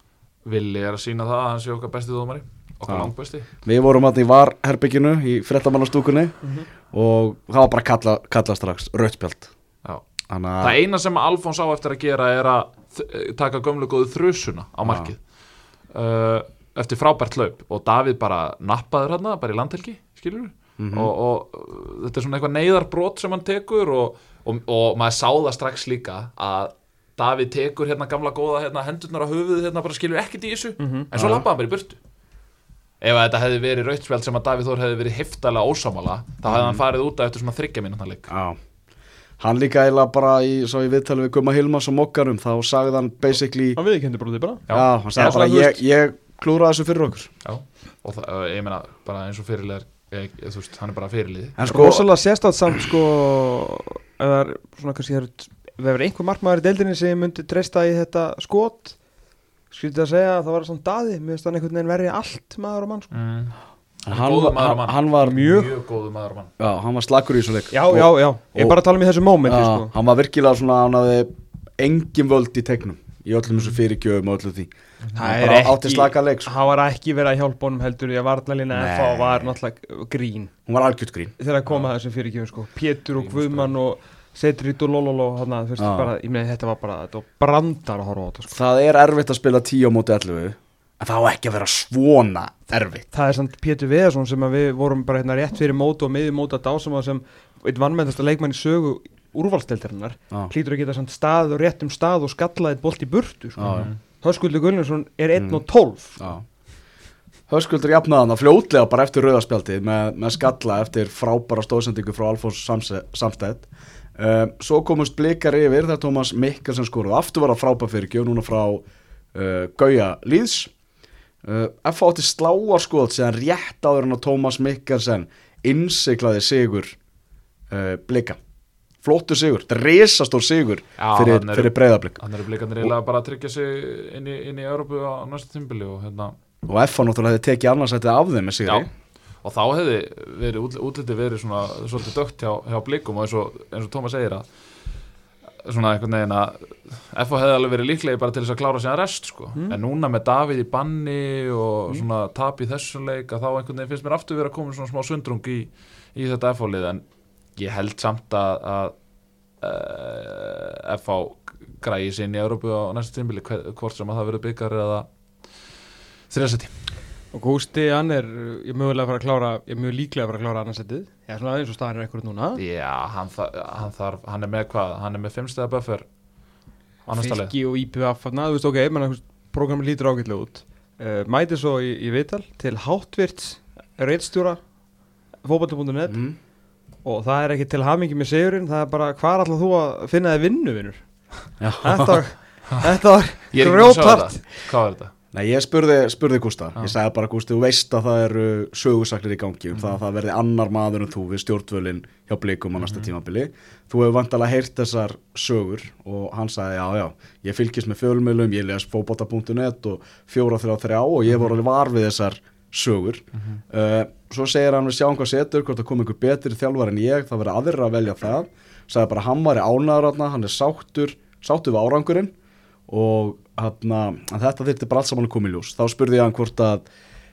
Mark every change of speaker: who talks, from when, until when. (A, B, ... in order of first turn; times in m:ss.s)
0:00.4-0:03.5 A
0:02.9-0:03.1 B
0:03.6-0:06.3 B
0:06.9-0:09.5 B
0:10.3-0:10.8 B
0:10.6-0:15.2 A
0:14.8-0:15.1 B
0:15.9-0:32.0 A
0:20.8-0:21.1 B
0:30.8-0:31.1 C
0:31.1-0:31.4 B
0:33.0-0:38.3 A
0:36.5-0:36.8 B
0:38.3-0:38.6 B
0:39.4-0:43.8 B
0:43.8-0:44.6 C
0:44.7-0:45.4 A
0:44.7-0:47.3 B
0:45.1-0:45.8 C
0:47.4-0:51.6 A
0:51.6-0:52.0 B
0:51.6-0:59.0 C
0:59.7-1:03.1 C
1:03.1-1:03.5 A
1:04.0-1:06.5 A
1:04.1-1:05.4 B
1:05.2-1:05.7 C
1:06.6-1:08.8 B
1:07.7-1:09.9 C
1:09.4-1:16.5 B
1:15.1-1:20.5 C
1:18.7-1:19.5 B
1:20.7-1:21.3 B
1:21.4-1:28.6 C
1:25.8-1:26.1 B
1:28.5-1:33.0 B
1:33.1-1:46.3 C
1:43.6-1:43.9 B
1:43.6-1:44.0 A
1:45.4-1:45.6 B
1:46.2-1:46.4 B
1:47.5-2:00.7 B
2:01.4-2:06.9 B
2:07.7-2:08.4 B
2:09.0-2:12.2 B
2:11.0-2:16.3 A
2:16.6-2:18.9 B
2:19.4-2:24.4 A
2:25.6-2:37.0 A
2:37.6-2:38.9 A
2:39.6-2:45.1 A
2:46.3-2:46.7 A
2:47.3-2:52.6 C
2:52.6-2:56.0 A
2:57.0-2:57.5 A
2:57.1-3:04.6 C
3:05.4-3:06.2 C
3:06.1-3:06.4 B
3:07.0-3:11.0 C
3:11.6-3:12.2 B
3:11.8-3:14.4 C
3:13.5-3:15.1 A
3:15.3-3:42.3 B
3:22.8-3:23.1 A
3:31.3-3:31.5 A
3:42.9-3:46.8 B